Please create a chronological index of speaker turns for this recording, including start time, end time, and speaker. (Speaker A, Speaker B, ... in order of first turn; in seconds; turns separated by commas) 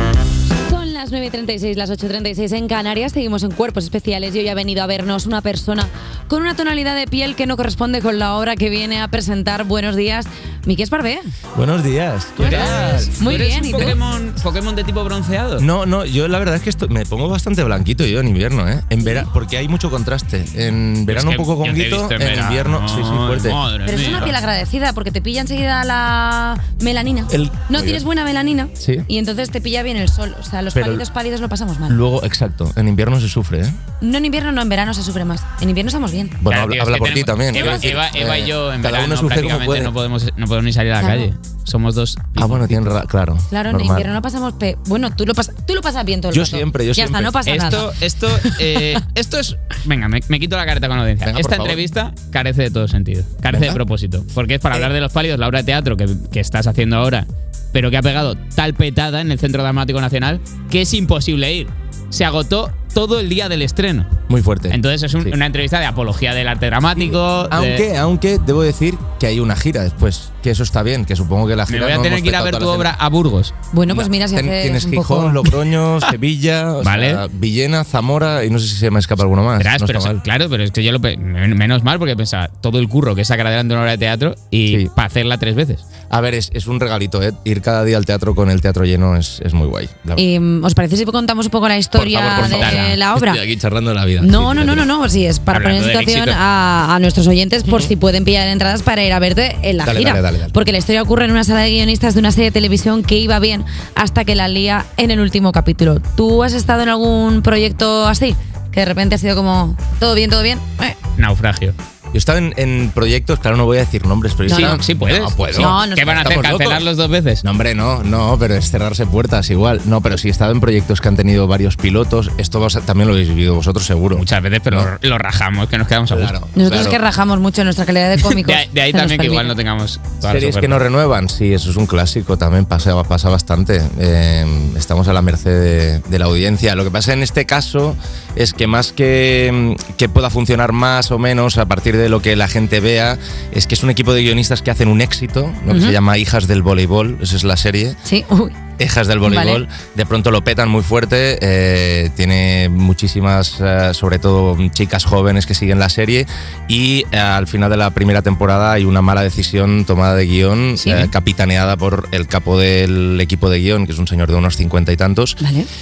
Speaker A: 0.7-11.3, Speaker B: 11.5-13.2, Speaker C: 12.4-15.7, Speaker A: 13.2-14.0, Speaker B: 15.6-23.6, Speaker C: 21.1-24.4, Speaker A: 23.8-32.0, Speaker B: 27.3-28.0, Speaker B: 28.8-29.1, Speaker B: 30.7-31.0, Speaker B: 31.9-33.8, Speaker A: 34.0-36.4, Speaker B: 36.4-39.9, Speaker C: 36.5-42.8, Speaker A: 41.0-41.3, Speaker B: 42.4-44.1, Speaker A: 43.5-47.9, Speaker B: 46.3-47.4, Speaker C: 47.4-64.1, Speaker B: 51.2-51.8, Speaker B: 53.5-53.8, Speaker B: 64.3-65.3, Speaker C: 64.7-67.8, Speaker B: 67.0-72.9, Speaker C: 71.7-73.5, Speaker A: 73.7-75.4, Speaker B: 73.9-80.2, Speaker C: 76.8-77.2, Speaker C: 79.6-85.8, Speaker B: 86.1-90.2, Speaker A: 90.2-93.4, Speaker B: 92.0-94.9, Speaker C: 92.3-93.0, Speaker A: 94.2-111.0, Speaker C: 95.5-96.4, Speaker B: 99.8-100.5, Speaker C: 111.2-111.8, Speaker B: 112.1-116.8, Speaker A: 114.5-114.8, Speaker C: 114.5-117.4, Speaker A: 115.5-116.2, Speaker B: 117.4-124.9, Speaker C: 124.1-126.3, Speaker B: 126.1-127.0, Speaker A: 126.5-129.5, Speaker C: 128.2-130.8, Speaker B: 130.2-148.0, Speaker A: 145.7-145.9, Speaker A: 148.1-148.6, Speaker B: 148.8-165.4, Speaker A: 149.2-149.6, Speaker A: 160.8-161.1, Speaker A: 165.4-165.7